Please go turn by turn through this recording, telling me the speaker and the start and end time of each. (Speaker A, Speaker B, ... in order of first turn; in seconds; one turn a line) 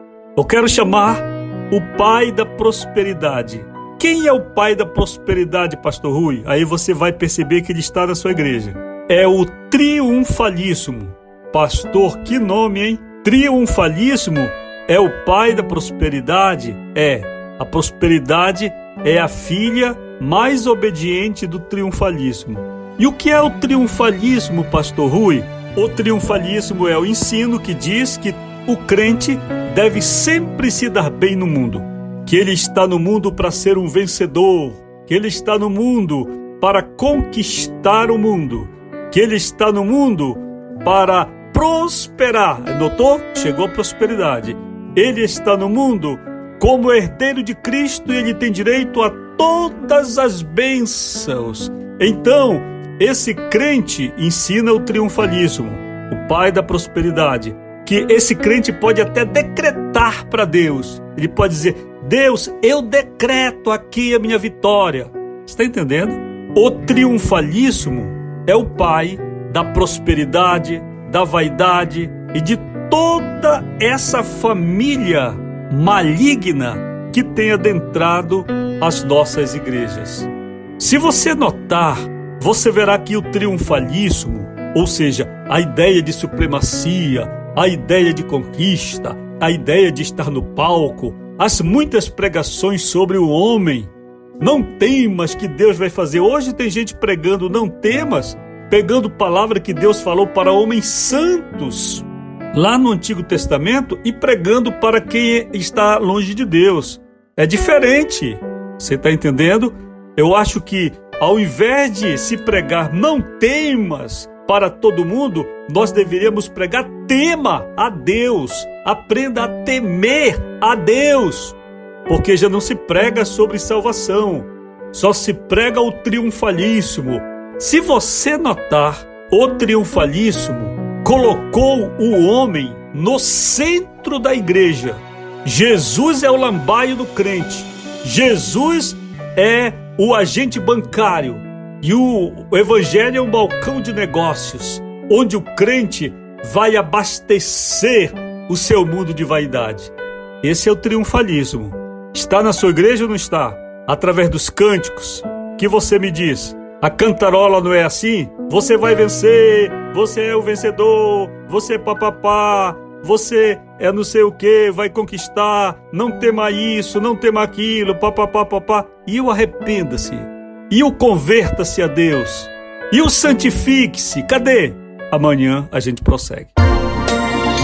Speaker A: 0.4-176.5